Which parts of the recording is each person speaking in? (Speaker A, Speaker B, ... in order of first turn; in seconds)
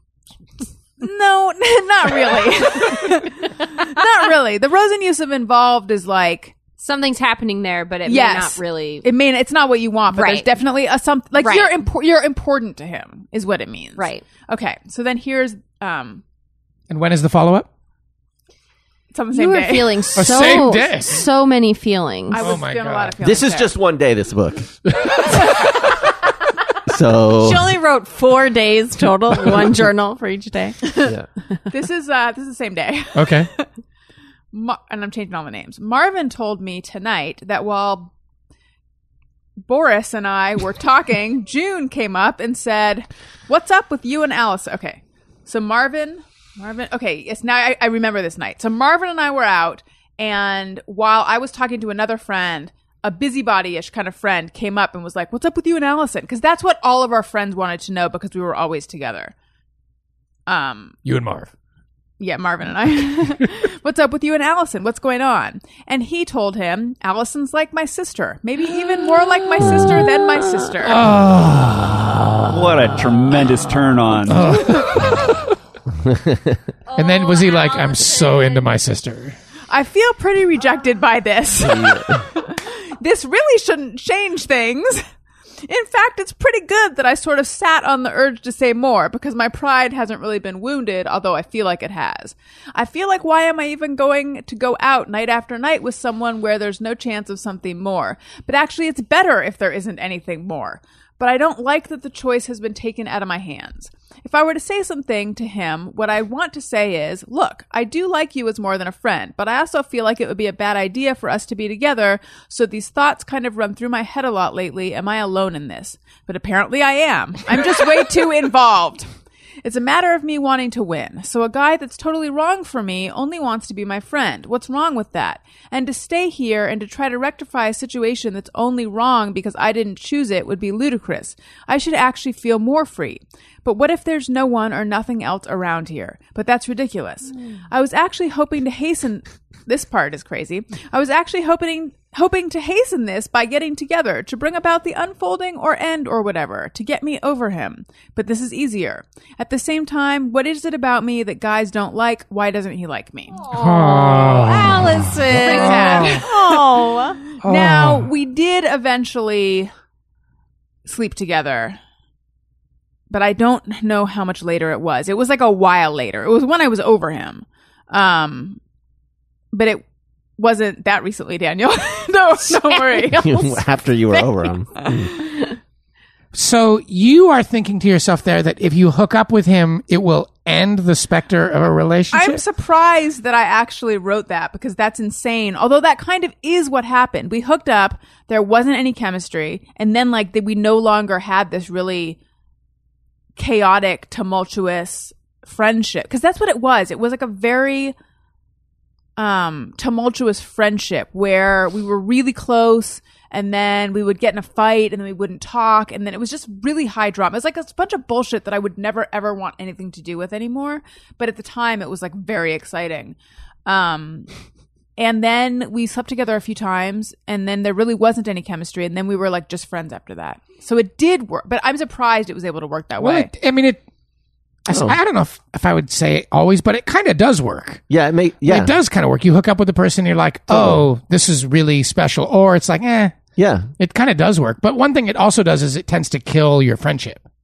Speaker A: 1.0-6.6, 8.1-16.2, 19.1-20.0, 22.3-23.7, 31.7-33.7, 34.5-38.1, 39.7-59.3, 60.5-61.0, 62.2-71.0, 79.7-85.0, 85.7-119.1, 119.6-153.4, 155.5-159.7, 160.8-161.8, 163.1-168.6, 169.5-169.8, 170.4-173.6, 174.1-175.5, 182.1-192.2, 193.4-197.9, 199.2-214.3, 215.0-223.3
Speaker B: 6.8-9.1, 10.1-10.5, 11.4-11.8, 14.0-14.2, 19.3-22.4, 27.4-30.9, 76.9-78.7, 153.4-157.2
Speaker C: 16.9-17.7, 20.1-21.3, 22.4-23.2, 33.1-33.5, 61.0-61.5, 70.8-72.1, 74.3-75.5, 77.0-79.3, 153.5-156.3, 157.4-158.1, 176.3-182.4, 223.0-223.8, 224.7-227.8, 228.4-233.2, 233.8-237.2
Speaker D: 23.2-24.8, 26.9-27.8, 76.0-76.6, 81.6-82.3, 173.1-175.1, 224.7-225.0, 227.9-228.8, 230.5-230.9, 233.4-233.7
Speaker E: 72.5-74.6